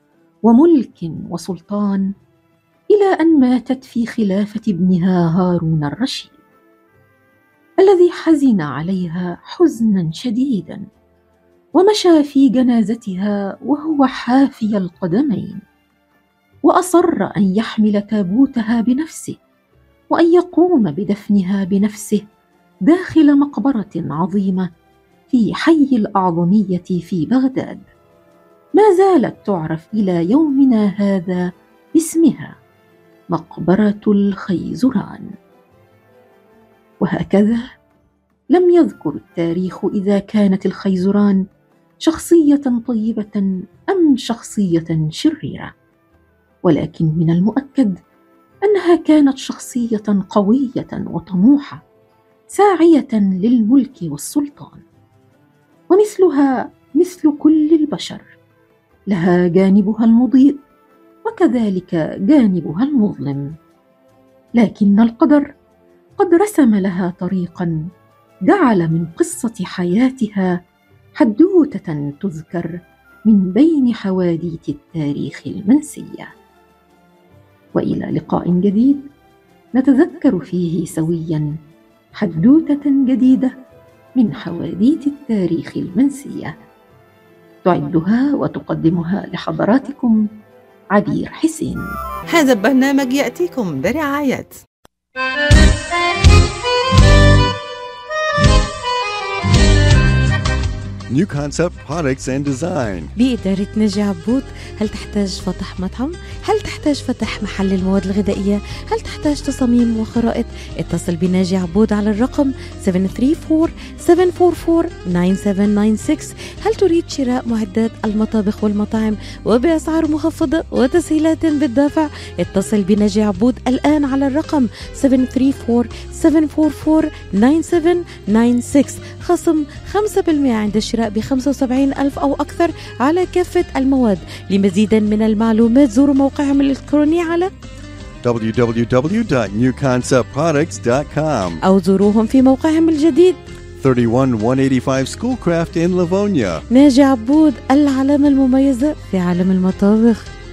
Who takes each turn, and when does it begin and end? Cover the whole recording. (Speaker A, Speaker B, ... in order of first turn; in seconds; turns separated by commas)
Speaker A: 0.5-2.0, Speaker A: 2.9-6.4, Speaker A: 7.8-10.8, Speaker A: 11.8-15.6, Speaker A: 16.6-19.4, Speaker A: 20.1-22.2, Speaker A: 22.9-24.7, Speaker A: 25.3-27.9, Speaker A: 28.8-32.5, Speaker A: 33.3-35.3, Speaker A: 37.0-37.6, Speaker A: 38.5-41.4, Speaker A: 42.0-45.7, Speaker A: 46.6-48.0, Speaker A: 48.6-51.8, Speaker A: 52.5-54.8, Speaker A: 55.9-58.3, Speaker A: 59.1-60.6, Speaker A: 61.2-63.5, Speaker A: 64.6-65.5, Speaker A: 66.2-67.7, Speaker A: 68.5-70.5, Speaker A: 71.2-76.3, Speaker A: 77.7-79.1, Speaker A: 79.7-81.5, Speaker A: 82.2-83.5, Speaker A: 84.2-86.6, Speaker A: 87.6-90.2, Speaker A: 90.9-91.8, Speaker B: 92.3-94.5, Speaker C: 101.1-103.1, Speaker D: 103.2-137.5, Speaker C: 138.2-141.6, Speaker D: 141.6-143.4, Speaker C: 143.8-146.6, Speaker D: 146.7-150.2